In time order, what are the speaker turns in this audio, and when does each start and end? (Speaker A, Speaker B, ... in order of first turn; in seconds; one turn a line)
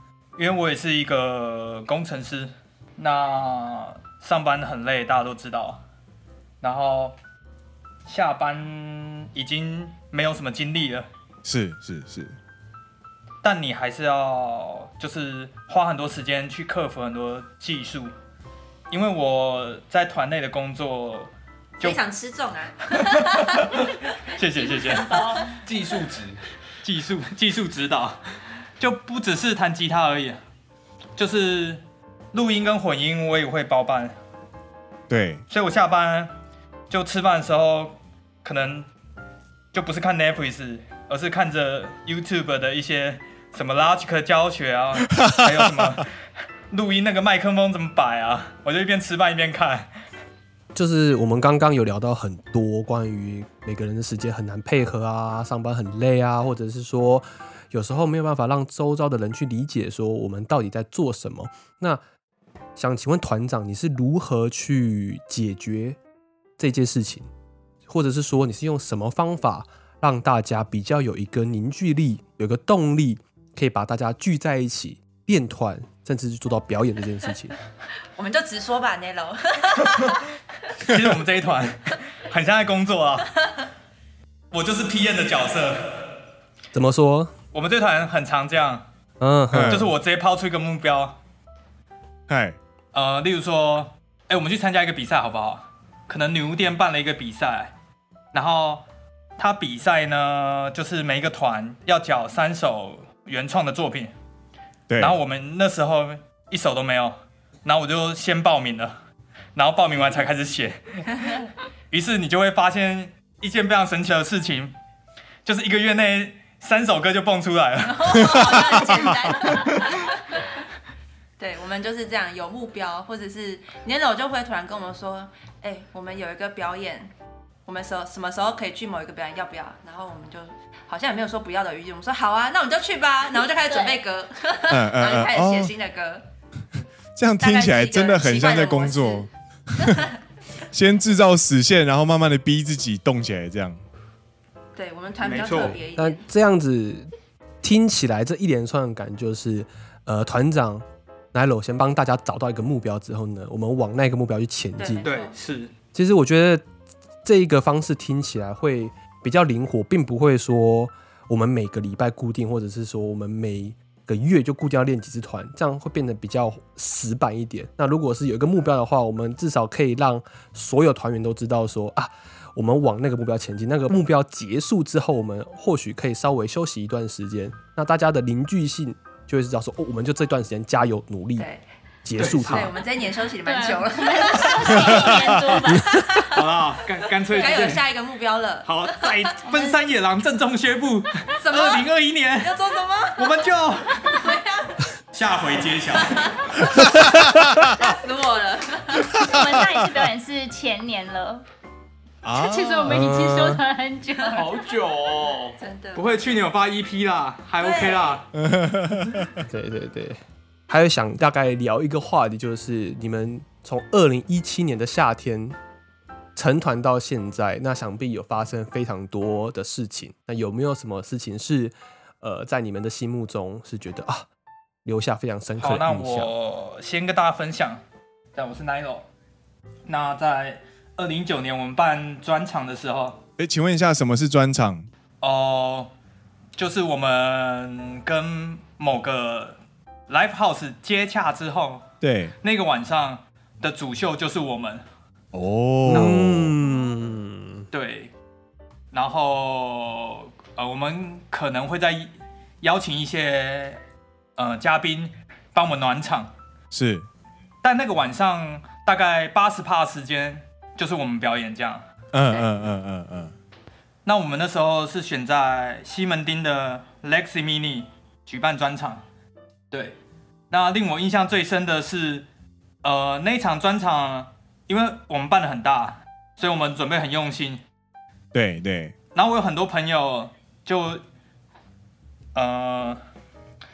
Speaker A: 0.3-5.8
Speaker A: 6.6-7.2
Speaker A: 8.1-11.1
Speaker B: 11.4-12.3
Speaker A: 13.4-18.1
Speaker A: 18.9-22.0
Speaker C: 21.8-23.7
Speaker A: 22.9-25.2
Speaker D: 24.6-25.5
Speaker E: 25.6-26.4
Speaker A: 26.8-28.2
Speaker A: 28.8-30.4
Speaker A: 31.1-31.8
Speaker A: 32.3-34.1
Speaker B: 35.1-35.4
Speaker A: 35.5-36.3
Speaker A: 36.9-38.9
Speaker A: 39.7-46.1
Speaker B: 45.1-46.0
Speaker A: 46.7-49.9
Speaker F: 50.7-62.0
Speaker F: 62.8-66.0
Speaker F: 66.6-67.3
Speaker F: 67.9-77.5
Speaker C: 78.2-80.2
Speaker A: 80.8-83.3
Speaker A: 84.5-86.1
Speaker F: 86.7-87.3
Speaker A: 87.5-88.8
Speaker F: 89.2-89.8
Speaker B: 89.5-89.9
Speaker A: 89.7-91.2
Speaker B: 92.3-92.6
Speaker A: 92.9-97.7
Speaker A: 98.3-98.8
Speaker A: 99.4-104.1
Speaker B: 104.9-105.2
Speaker A: 105.0-109.0
Speaker A: 109.5-114.7
Speaker A: 115.4-119.1
Speaker C: 117.8-120.5
Speaker C: 121.4-127.1
Speaker C: 127.7-136.2
Speaker D: 133.7-134.0
Speaker B: 134.7-135.7
Speaker B: 137.2-140.1
Speaker C: 137.4-139.3
Speaker C: 139.8-140.1
Speaker B: 140.7-143.8
Speaker C: 144.7-146.2
Speaker A: 145.2-145.8
Speaker F: 145.9-147.1
Speaker F: 147.6-155.1
Speaker C: 154.8-155.3
Speaker A: 155.0-155.7
Speaker F: 155.9-156.6
Speaker F: 157.2-181.5
Speaker F: 182.0-182.7
Speaker A: 182.2-182.7
Speaker C: 182.2-185.3
Speaker D: 183.4-186.1
Speaker B: 184.8-185.4
Speaker C: 185.8-186.5
Speaker A: 186.3-187.9
Speaker C: 187.2-189.8
Speaker A: 188.6-192.6
Speaker C: 191.3-193.3
Speaker A: 193.2-194.3
Speaker C: 194.0-194.8
Speaker A: 195.1-196.6
Speaker C: 196.0-199.2
Speaker B: 196.7-197.7
Speaker B: 199.1-199.5
Speaker D: 199.2-201.4
Speaker B: 202.2-203.6
Speaker D: 202.3-204.7
Speaker E: 204.3-205.6
Speaker C: 205.6-206.3
Speaker A: 205.9-208.2
Speaker C: 207.6-208.2
Speaker B: 208.3-209.3
Speaker F: 209.4-215.6
Speaker F: 216.3-224.3
Speaker F: 224.8-226.3
Speaker A: 225.6-227.8
Speaker A: 228.3-229.1
Speaker A: 229.8-233.2
Speaker B: 233.4-234.9
Speaker A: 235.2-235.9
Speaker A: 236.6-239.6
Speaker A: 240.1-241.8
Speaker B: 242.0-242.3
Speaker A: 242.4-244.8
Speaker B: 245.3-246.6
Speaker F: 245.8-247.7
Speaker A: 247.7-248.1
Speaker A: 248.9-253.8
Speaker A: 254.4-256.3
Speaker B: 256.7-257.1
Speaker A: 257.6-261.8
Speaker B: 262.1-263.3
Speaker A: 264.0-269.0
Speaker A: 269.7-269.9
Speaker A: 270.5-272.2
Speaker A: 272.8-277.6
Speaker B: 278.3-278.9
Speaker A: 279.1-281.0
Speaker A: 282.3-283.0